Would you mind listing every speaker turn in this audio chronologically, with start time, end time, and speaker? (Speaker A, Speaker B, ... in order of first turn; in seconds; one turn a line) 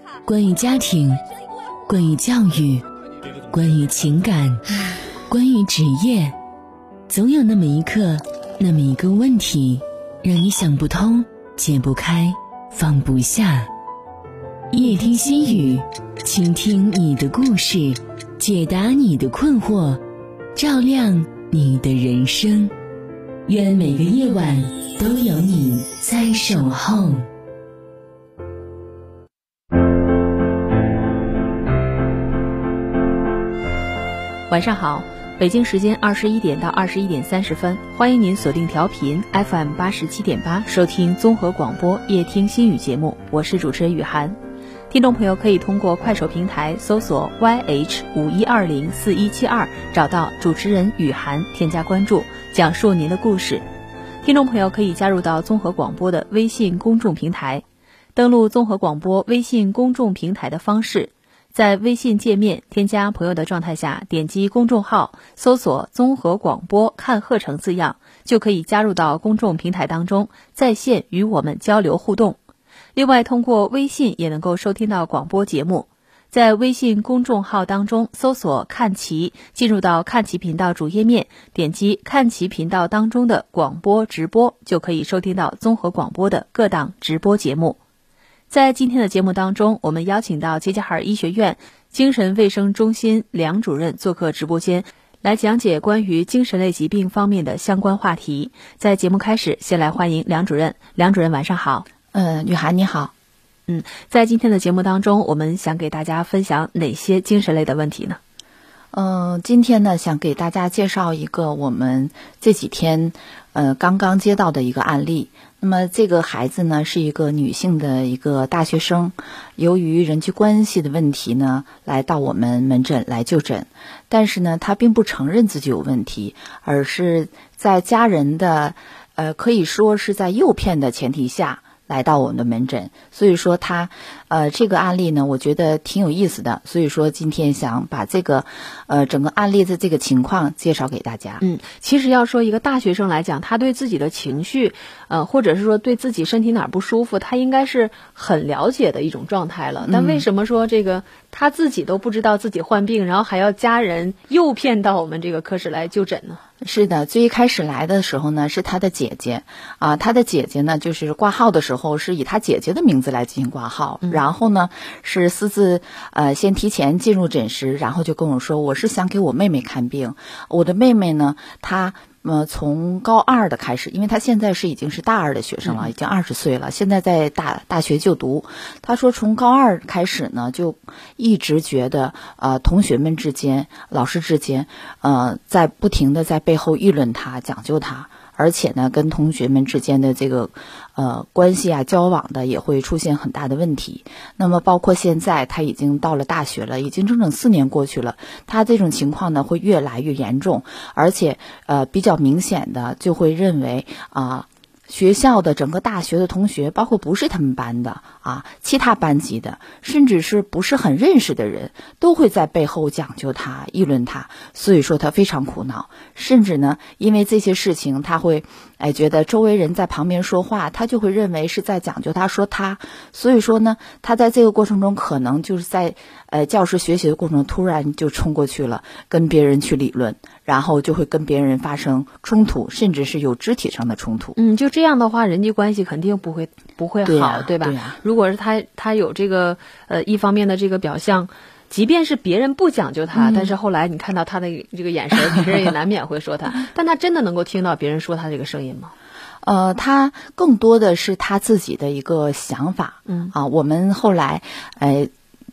Speaker A: 0.2-1.2
Speaker A: 1.9-2.8
Speaker A: 3.4-4.7
Speaker A: 5.3-6.3
Speaker A: 7.1-13.7
Speaker A: 14.7-20.0
Speaker A: 20.5-22.7
Speaker A: 23.5-27.2
Speaker B: 34.5-44.4
Speaker B: 44.9-53.6
Speaker B: 54.2-57.6
Speaker B: 58.1-72.4
Speaker B: 72.9-87.8
Speaker B: 88.5-101.8
Speaker C: 102.1-103.1
Speaker B: 103.7-108.2
Speaker C: 108.9-141.4
Speaker B: 141.4-156.4
Speaker C: 149.8-150.2
Speaker C: 156.6-234.3
Speaker B: 175.6-175.9
Speaker B: 234.3-248.9
Speaker C: 237.0-238.0
Speaker C: 243.1-243.5
Speaker C: 249.4-255.1
Speaker B: 253.1-253.3